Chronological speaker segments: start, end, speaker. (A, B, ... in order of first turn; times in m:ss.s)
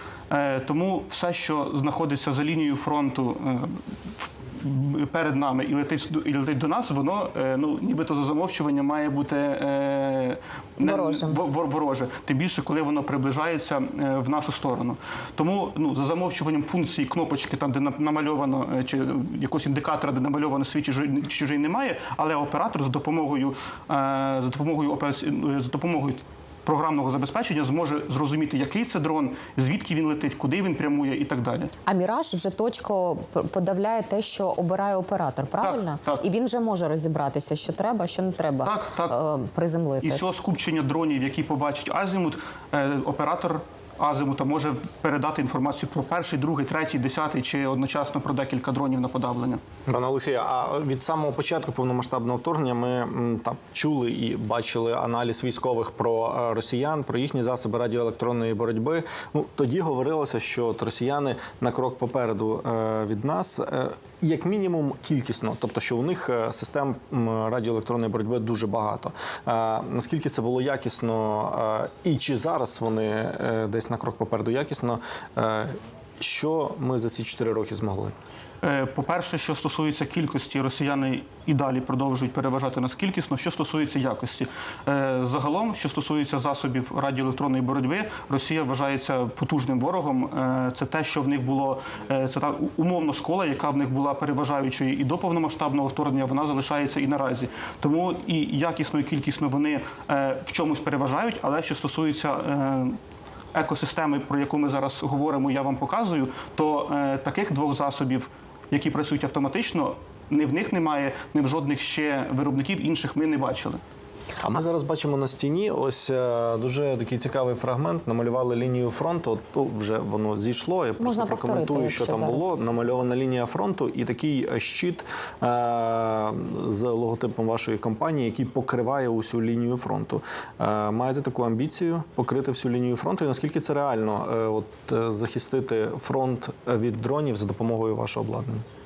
0:00.3-0:31.7 A
0:10.8-0:11.4 B
0:31.9-0:40.2 B
0:35.6-0:36.2 A
0:38.6-0:39.2 A
0:40.0-0:49.6 A
0:49.9-1:18.1 C
1:18.6-1:43.0 A
1:43.5-1:53.8 A
1:54.4-2:18.6 C
2:01.0-2:02.6 B